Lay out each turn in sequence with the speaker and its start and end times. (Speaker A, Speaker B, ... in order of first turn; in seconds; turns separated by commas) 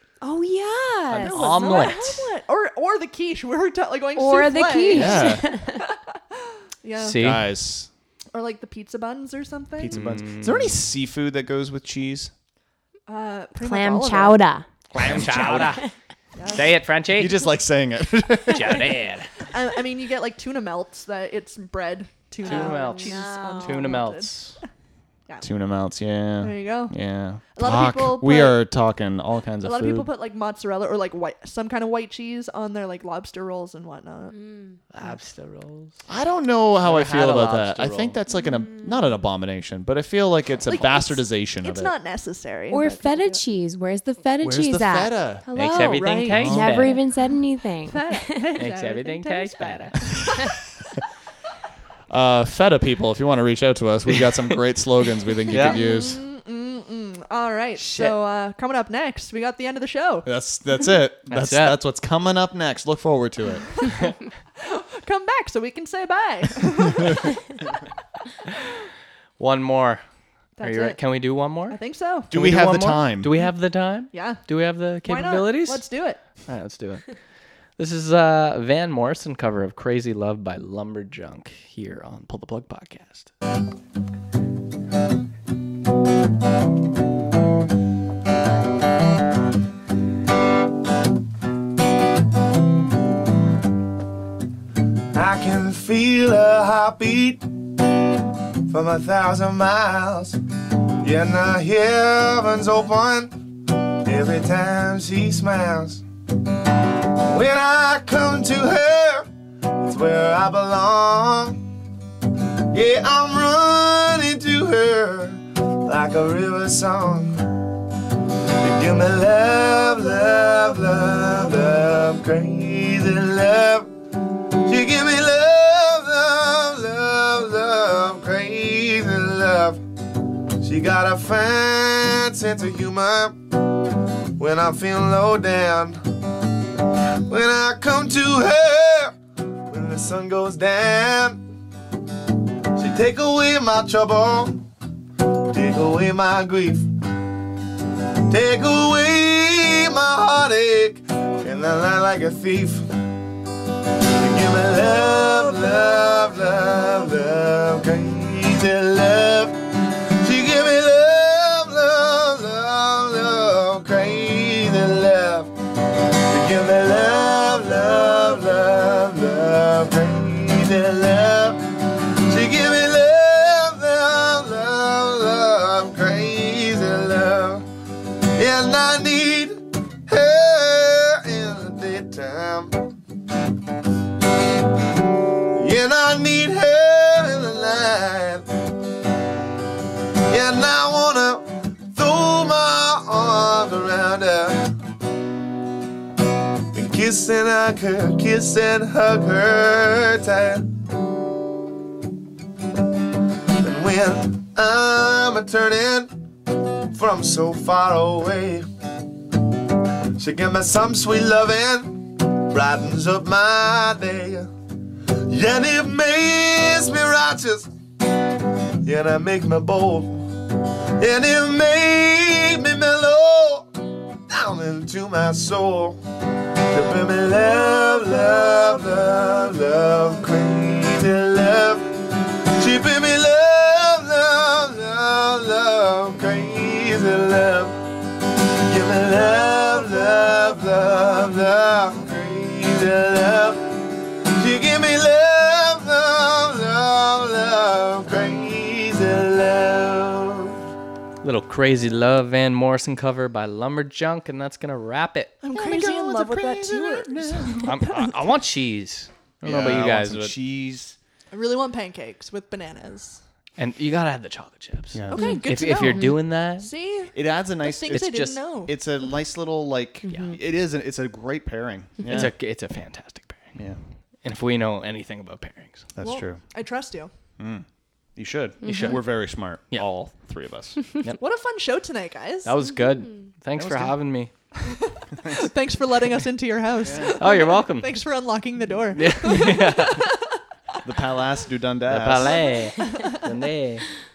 Speaker A: 0.2-2.1, Speaker B: 1.1-7.3, Speaker C: 1.2-2.3, Speaker A: 4.2-5.9, Speaker D: 4.9-5.4, Speaker C: 7.0-7.5, Speaker D: 7.2-7.9, Speaker B: 8.3-10.0, Speaker D: 9.8-12.3, Speaker C: 9.9-10.9, Speaker B: 13.1-14.4, Speaker A: 13.6-15.9, Speaker C: 14.9-15.9, Speaker D: 14.9-15.8, Speaker B: 16.4-16.6, Speaker C: 16.5-17.4, Speaker D: 17.1-19.0, Speaker C: 18.5-19.3, Speaker B: 19.5-24.6, Speaker C: 22.4-24.6, Speaker A: 22.4-24.0, Speaker D: 25.4-30.1, Speaker B: 26.4-26.9, Speaker B: 27.5-28.6, Speaker B: 29.6-34.4, Speaker A: 34.4-34.7, Speaker C: 34.9-36.1, Speaker D: 36.1-41.9, Speaker C: 36.8-38.2, Speaker A: 38.6-38.9, Speaker B: 40.7-43.4, Speaker A: 42.7-48.6, Speaker D: 44.4-45.5, Speaker C: 45.5-47.0, Speaker B: 45.7-46.6, Speaker D: 46.3-47.0, Speaker B: 47.8-50.5, Speaker C: 48.6-50.1, Speaker D: 52.1-56.2, Speaker C: 55.5-55.8, Speaker B: 55.8-60.3, Speaker C: 57.8-58.1, Speaker D: 60.2-63.8, Speaker C: 61.3-61.8, Speaker B: 64.6-67.3, Speaker C: 69.4-70.0, Speaker B: 70.6-71.0, Speaker C: 70.6-71.8, Speaker B: 71.7-72.3, Speaker D: 72.3-73.3, Speaker C: 72.3-75.9, Speaker B: 74.1-74.4, Speaker B: 75.0-76.2, Speaker C: 76.5-77.2, Speaker C: 77.8-83.3, Speaker E: 95.1-97.5, Speaker E: 98.7-100.4, Speaker E: 101.0-106.0, Speaker E: 107.2-111.6, Speaker E: 112.7-117.4, Speaker E: 118.6-123.9, Speaker E: 124.6-129.8, Speaker E: 130.6-133.4, Speaker E: 134.4-136.0, Speaker E: 137.3-139.2, Speaker E: 139.7-141.4, Speaker E: 142.8-144.7, Speaker E: 145.3-146.9, Speaker E: 148.3-152.9, Speaker E: 154.2-177.7, Speaker E: 178.3-182.8, Speaker E: 185.5-188.4, Speaker E: 190.3-194.7, Speaker E: 196.7-200.7, Speaker E: 203.6-206.2, Speaker E: 206.9-208.7, Speaker E: 210.2-214.5, Speaker E: 215.2-217.7, Speaker E: 218.8-220.3, Speaker E: 221.0-223.7, Speaker E: 224.3-226.0, Speaker E: 226.6-237.8, Speaker E: 238.4-250.6, Speaker C: 251.2-255.4, Speaker B: 255.4-257.9, Speaker D: 255.5-258.1, Speaker C: 257.6-260.4, Speaker D: 259.4-260.9, Speaker B: 261.3-263.2, Speaker C: 263.6-266.7, Speaker D: 264.9-265.4, Speaker B: 265.1-268.7, Speaker A: 265.1-266.2, Speaker D: 267.1-272.3, Speaker C: 267.9-268.5, Speaker A: 270.1-270.4, Speaker C: 272.1-273.5, Speaker D: 273.6-273.8, Speaker C: 274.2-275.9, Speaker D: 275.9-276.4, Speaker B: 276.0-277.1, Speaker D: 277.4-277.6, Speaker D: 278.2-280.8, Speaker A: 278.6-279.0, Speaker C: 278.6-279.0, Speaker B: 281.2-282.5, Speaker C: 282.4-284.3, Speaker D: 283.6-284.0, Speaker B: 284.6-290.2, Speaker D: 286.9-287.1, Speaker C: 287.0-288.0, Speaker C: 288.9-290.1, Speaker D: 290.8-292.5, Speaker C: 291.9-293.9, Speaker B: 292.9-293.2